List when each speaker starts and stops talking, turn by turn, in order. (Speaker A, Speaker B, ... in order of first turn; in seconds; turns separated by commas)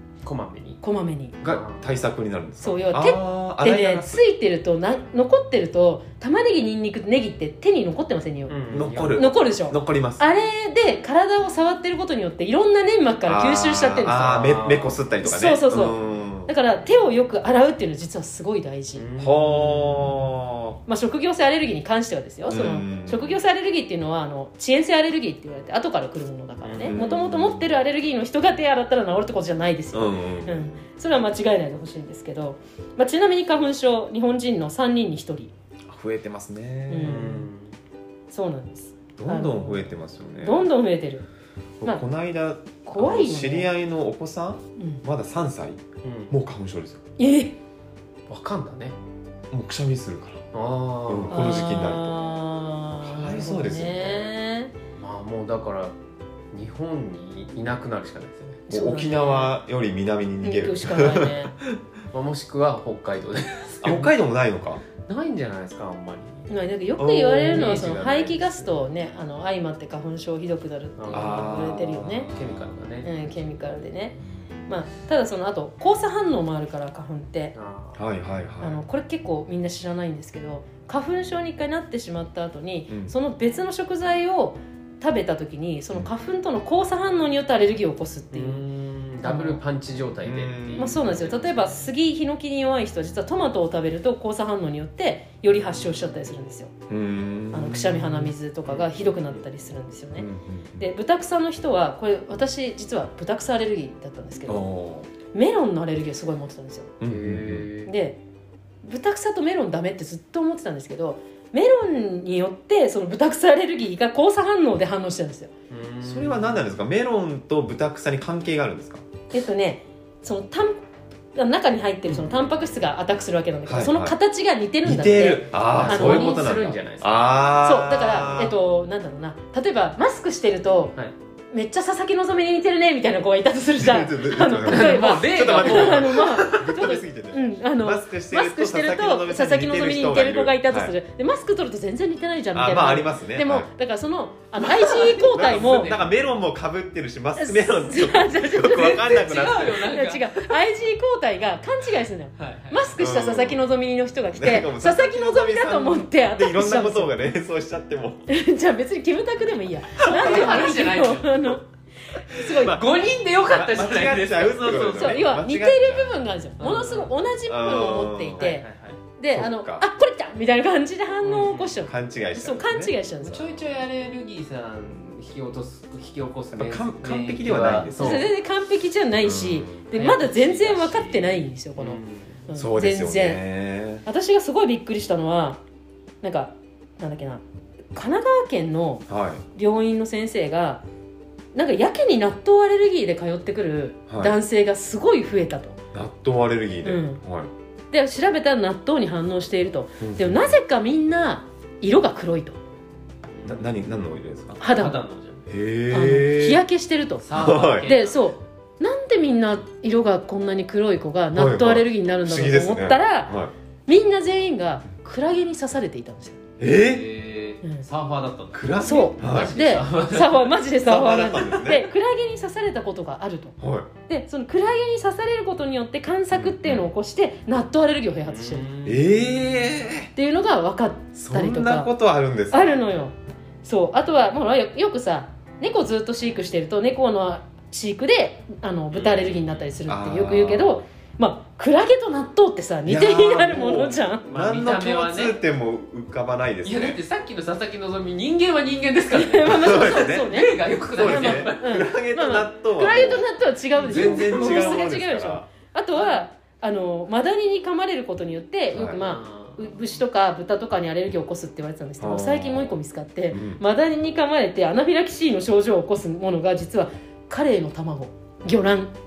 Speaker A: 0.2-0.8, Speaker B: 0.8-1.4, Speaker C: 1.4-4.2, Speaker A: 1.4-2.0, Speaker B: 2.6-14.7, Speaker A: 8.5-9.3, Speaker C: 8.7-10.2, Speaker C: 13.2-16.5, Speaker A: 14.2-15.1, Speaker B: 15.2-19.0, Speaker A: 18.9-20.2, Speaker C: 19.2-20.8, Speaker B: 20.9-35.5, Speaker C: 22.5-23.4, Speaker A: 26.6-27.0, Speaker C: 26.9-27.7, Speaker C: 29.9-30.7, Speaker C: 35.9-37.4, Speaker B: 36.9-37.4, Speaker A: 37.0-37.7, Speaker B: 38.3-41.2, Speaker C: 39.2-40.7, Speaker C: 41.8-47.0, Speaker B: 42.8-43.7, Speaker B: 44.8-45.0, Speaker A: 46.0-46.3, Speaker B: 47.2-47.5, Speaker A: 48.3-48.9, Speaker C: 49.5-50.5, Speaker A: 50.5-51.7, Speaker C: 51.1-52.2, Speaker B: 51.3-54.7, Speaker C: 53.0-54.3, Speaker A: 55.0-55.9, Speaker A: 56.5-58.6, Speaker B: 58.7-59.5, Speaker C: 58.7-61.8, Speaker B: 60.4-61.5, Speaker A: 62.1-64.1, Speaker C: 63.8-64.8, Speaker A: 65.0-66.5, Speaker B: 66.5-72.3, Speaker C: 67.0-68.4, Speaker A: 67.5-68.7, Speaker A: 71.0-73.1, Speaker C: 71.1-72.7, Speaker B: 73.0-77.5, Speaker A: 77.5-78.0, Speaker C: 78.0-78.8, Speaker B: 78.6-88.6, Speaker C: 82.9-83.1, Speaker A: 88.3-91.2, Speaker B: 89.2-89.6, Speaker C: 90.2-91.7, Speaker B: 90.8-96.7, Speaker C: 96.9-98.3, Speaker B: 97.5-104.7, Speaker A: 98.7-99.4, Speaker C: 100.2-100.8, Speaker C: 104.5-105.1, Speaker B: 105.3-106.9, Speaker C: 107.0-107.7, Speaker A: 107.0-107.9, Speaker B: 107.8-108.2, Speaker B: 108.8-115.5, Speaker A: 115.7-116.7, Speaker C: 116.0-119.0, Speaker B: 119.3-120.8, Speaker B: 121.3-126.5, Speaker A: 122.1-122.4, Speaker C: 123.7-124.2, Speaker C: 124.8-128.5, Speaker A: 125.7-127.5, Speaker B: 127.6-130.9, Speaker B: 131.5-145.9, Speaker C: 133.8-140.9, Speaker A: 134.6-136.7, Speaker C: 142.5-143.7, Speaker A: 144.7-146.1, Speaker C: 145.3-149.9, Speaker B: 147.4-157.2, Speaker A: 148.6-150.5, Speaker A: 152.4-152.9, Speaker C: 153.0-153.6, Speaker C: 154.3-158.2, Speaker B: 158.3-161.6, Speaker A: 160.0-161.5, Speaker B: 162.1-162.8, Speaker A: 162.4-165.3, Speaker C: 163.5-166.2, Speaker B: 164.7-168.6, Speaker A: 166.6-167.1, Speaker C: 167.5-168.5, Speaker A: 168.4-169.0, Speaker B: 169.2-173.5, Speaker C: 169.3-169.9, Speaker A: 171.2-171.8, Speaker C: 171.8-172.9, Speaker A: 173.2-178.2, Speaker C: 176.5-178.3, Speaker B: 178.0-183.4, Speaker C: 179.2-179.8, Speaker A: 179.9-182.4, Speaker C: 182.5-184.0, Speaker B: 184.0-185.6, Speaker B: 186.2-189.0, Speaker C: 189.1-189.4, Speaker B: 189.5-190.8, Speaker B: 191.5-195.8, Speaker C: 194.1-194.3, Speaker C: 195.9-197.5, Speaker B: 196.8-197.2, Speaker B: 197.9-202.6, Speaker C: 200.0-200.6, Speaker A: 203.4-203.7, Speaker C: 203.5-204.6, Speaker A: 204.6-205.4, Speaker B: 204.6-204.9, Speaker C: 205.5-206.6, Speaker B: 205.9-213.3, Speaker A: 207.2-208.2, Speaker C: 207.3-207.9, Speaker C: 211.3-213.5, Speaker B: 213.9-216.4, Speaker C: 216.6-217.1, Speaker A: 216.7-220.5, Speaker C: 218.5-219.6, Speaker B: 218.8-228.7, Speaker C: 220.8-221.9, Speaker C: 223.6-223.9, Speaker C: 226.3-226.8, Speaker A: 228.2-229.7, Speaker C: 228.8-230.1, Speaker B: 230.1-231.9, Speaker C: 231.2-232.8, Speaker B: 232.5-244.2, Speaker A: 238.9-239.7, Speaker C: 239.9-240.8, Speaker C: 242.8-247.0, Speaker A: 244.3-245.4, Speaker A: 246.6-251.6, Speaker B: 249.1-268.9, Speaker C: 249.5-250.3, Speaker C: 250.9-255.5, Speaker A: 253.8-254.8, Speaker C: 258.7-259.0, Speaker A: 259.0-259.7, Speaker C: 262.0-262.7, Speaker C: 263.3-263.6